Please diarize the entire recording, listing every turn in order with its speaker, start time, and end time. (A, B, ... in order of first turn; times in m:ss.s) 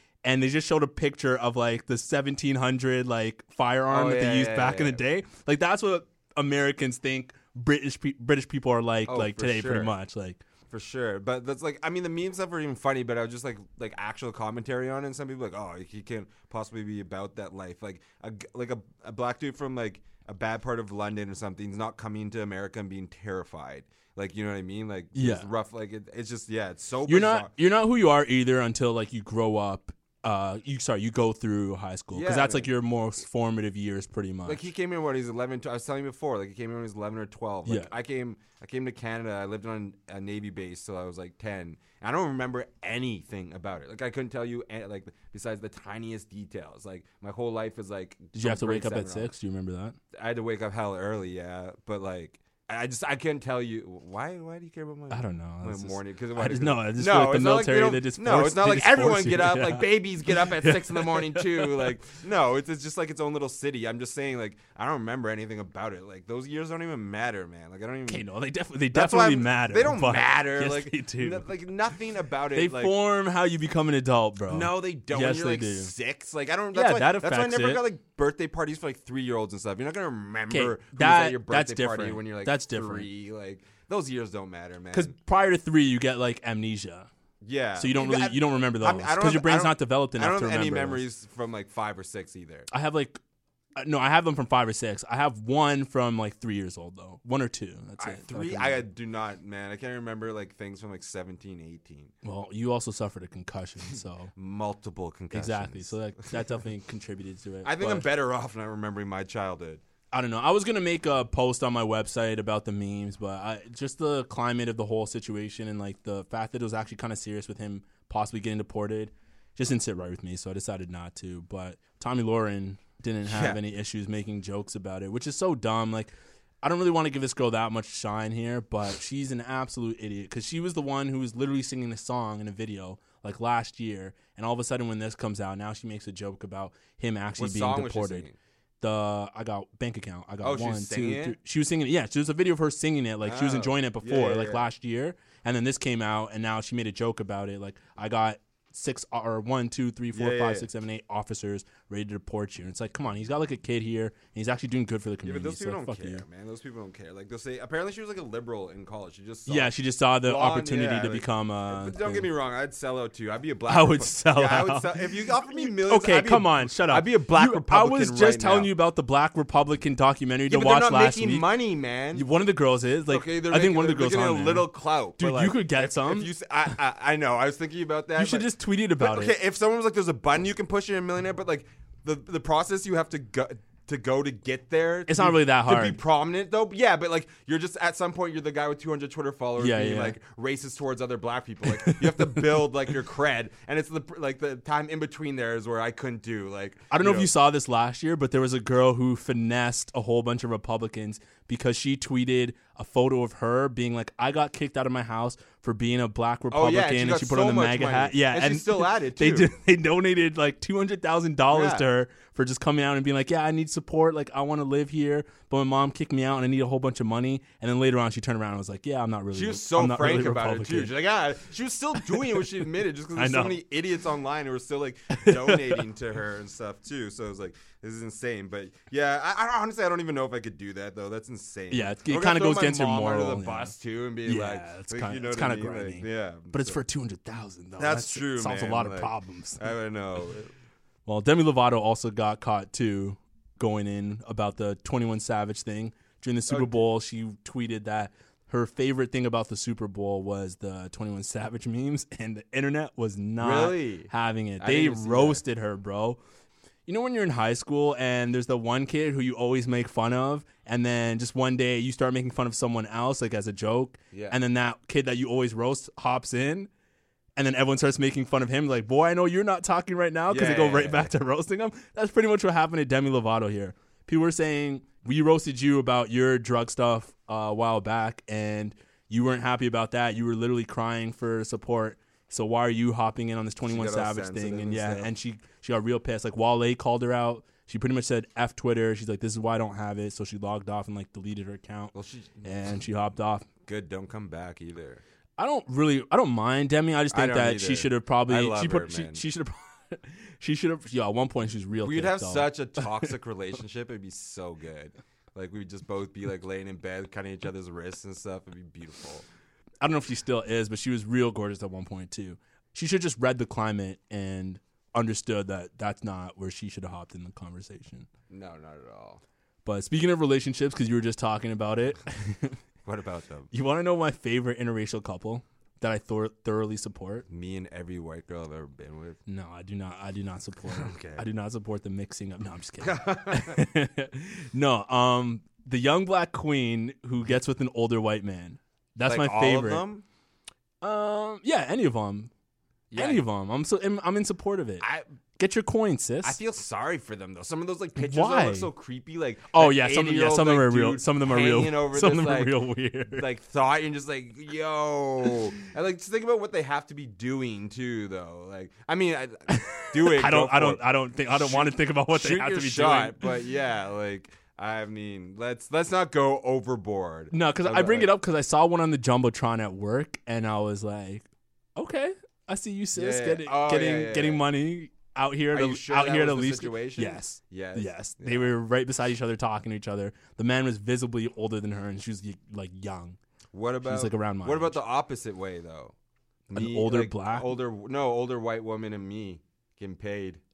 0:00.2-0:10.4 A
0:03.9-0:05.0 B
0:09.1-0:09.9 B
0:10.7-0:27.5 B
0:25.2-0:25.5 A
0:27.1-0:34.7 A
0:32.1-0:32.7 B
0:34.5-0:49.3 B
0:37.6-0:37.9 A
0:48.4-0:50.0 A
0:50.1-1:08.2 B
0:55.1-1:01.9 A
1:08.1-1:11.5 A
1:08.9-1:12.9 B
1:12.5-1:15.9 A
1:14.5-1:25.1 B
1:16.7-1:17.8 A
1:20.5-1:23.1 A
1:24.9-1:27.1 A
1:27.4-1:32.7 B
1:27.8-1:31.0 A
1:32.7-1:33.2 A
1:33.8-1:38.8 A
1:38.0-1:42.1 B
1:42.2-1:44.3 A
1:44.4-1:45.9 B
1:45.3-1:48.1 A
1:47.6-1:49.8 B
1:50.1-2:18.3 A
2:03.3-2:03.6 B
2:17.4-2:18.4 B
2:18.8-2:36.2 A
2:20.4-2:21.4 B
2:23.3-2:24.6 B
2:30.1-2:30.7 B
2:35.2-2:39.7 B
2:39.5-2:42.3 A
2:40.2-2:48.7 B
2:43.7-2:51.5 A
2:50.5-2:52.3 B
2:52.1-2:56.3 A
2:53.1-2:58.4 B
2:58.2-2:59.4 A
2:59.0-3:17.3 B
3:05.1-3:06.0 A
3:09.6-3:10.2 A
3:11.7-3:12.5 A
3:16.9-3:40.9 A
3:26.5-3:29.5 B
3:31.5-3:31.8 B
3:39.3-3:56.8 B
3:42.0-3:42.4 A
3:43.2-3:43.6 A
3:45.3-3:45.8 A
3:51.7-3:53.7 A
3:54.2-3:59.7 A
3:57.8-4:00.5 B
4:01.1-4:16.2 A
4:06.5-4:06.8 B
4:13.4-4:14.1 B
4:14.6-4:15.4 B
4:16.9-4:26.7 A
4:24.1-4:24.4 B
4:27.4-4:53.5 A
4:30.3-4:31.1 B
4:43.6-4:45.1 B
4:52.0-4:52.5 B
4:53.7-4:55.0 B
4:55.4-5:03.1 A
4:57.1-4:59.2 B
5:01.8-5:09.2 B
5:09.8-5:18.1 A
5:18.3-5:19.2 B
5:19.6-5:22.6 A
5:22.8-5:23.5 B
5:23.5-5:27.3 A
5:27.3-5:29.2 B
5:29.3-5:39.8 A
5:30.7-5:31.2 B
5:32.8-5:33.6 B
5:39.1-5:40.0 B
5:40.8-5:42.3 A
5:42.9-5:43.2 B
5:42.9-5:44.9 A
5:45.4-5:46.4 A
5:46.2-5:52.5 B
5:48.0-5:48.7 A
5:49.5-5:53.3 A
5:53.1-6:08.1 B
5:59.5-6:03.3 A
6:07.3-6:11.2 A
6:11.8-6:23.2 A
6:13.0-6:14.4 B
6:15.5-6:18.5 B
6:23.5-6:25.9 B
6:23.8-6:24.8 A
6:26.5-6:30.4 B
6:26.5-6:27.6 A